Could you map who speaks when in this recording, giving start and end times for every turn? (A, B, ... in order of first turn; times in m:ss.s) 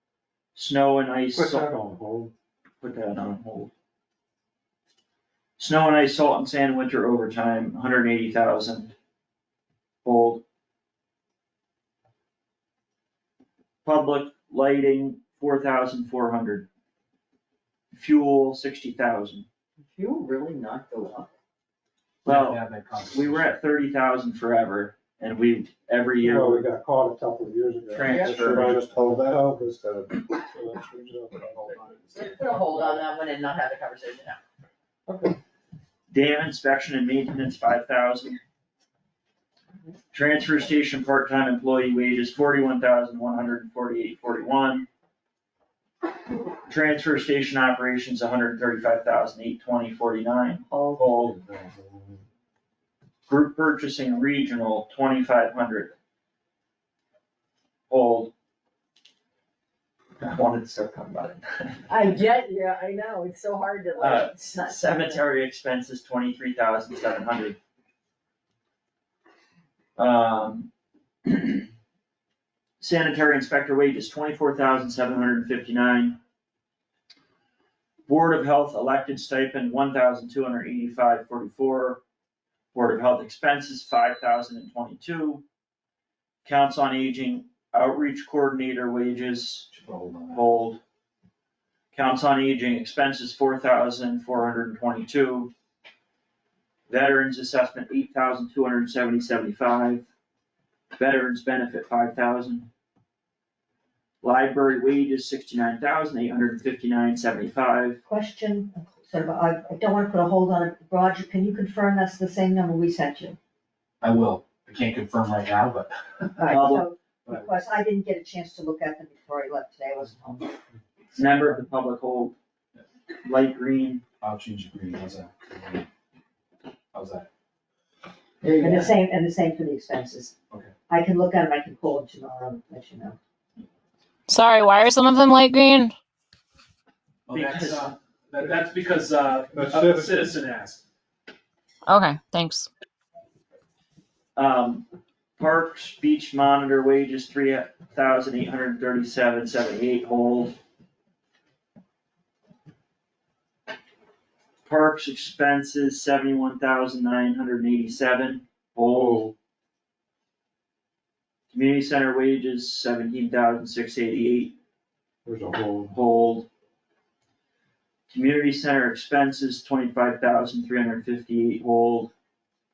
0:00.5-0:01.7 A
0:01.3-0:02.3 B
0:02.8-0:03.7 A
0:05.6-0:08.9 A
0:10.0-0:10.4 A
0:13.8-0:16.7 A
0:17.9-0:19.4 A
0:19.9-0:21.3 C
0:22.2-0:26.6 A
0:22.2-0:23.6 D
0:26.2-0:33.0 B
0:27.9-0:28.9 A
0:28.0-0:28.5 C
0:32.1-0:34.4 C
0:35.1-0:35.4 B
0:36.1-0:38.4 A
0:40.1-0:44.9 A
0:46.7-0:51.4 A
0:50.7-0:51.0 C
0:51.4-0:52.2 B
0:53.3-0:55.9 A
0:57.9-0:58.3 A
1:00.2-1:01.9 A
1:01.9-1:05.2 C
1:04.0-1:07.6 A
1:10.0-1:10.7 A
1:11.2-1:11.7 A
1:12.8-1:16.2 A
1:18.1-1:22.0 A
1:22.7-1:25.4 A
1:26.4-1:29.7 A
1:29.7-1:30.4 D
1:30.3-1:30.8 A
1:31.9-1:35.5 A
1:36.9-1:40.0 A
1:41.0-1:42.7 A
1:44.2-1:48.0 A
1:48.0-1:53.4 E
1:54.0-1:56.5 D
1:56.4-2:00.6 E
1:56.5-1:56.8 A
2:01.2-2:02.3 A
2:03.2-2:04.0 A
2:04.2-2:05.9 D
2:06.9-2:07.3 D
2:08.4-2:08.8 C
2:08.6-2:10.3 E
2:10.9-2:13.2 E
2:14.3-2:15.9 F
2:17.3-2:20.8 D
2:17.3-2:17.9 A
2:19.6-2:20.2 B
2:21.8-2:22.7 F
2:24.4-2:24.9 A
2:25.4-2:30.6 A
2:34.6-2:39.3 A
2:38.9-2:39.3 B
2:41.5-2:44.6 A
2:45.2-2:45.9 B
2:45.9-2:46.5 A
2:48.1-2:52.1 A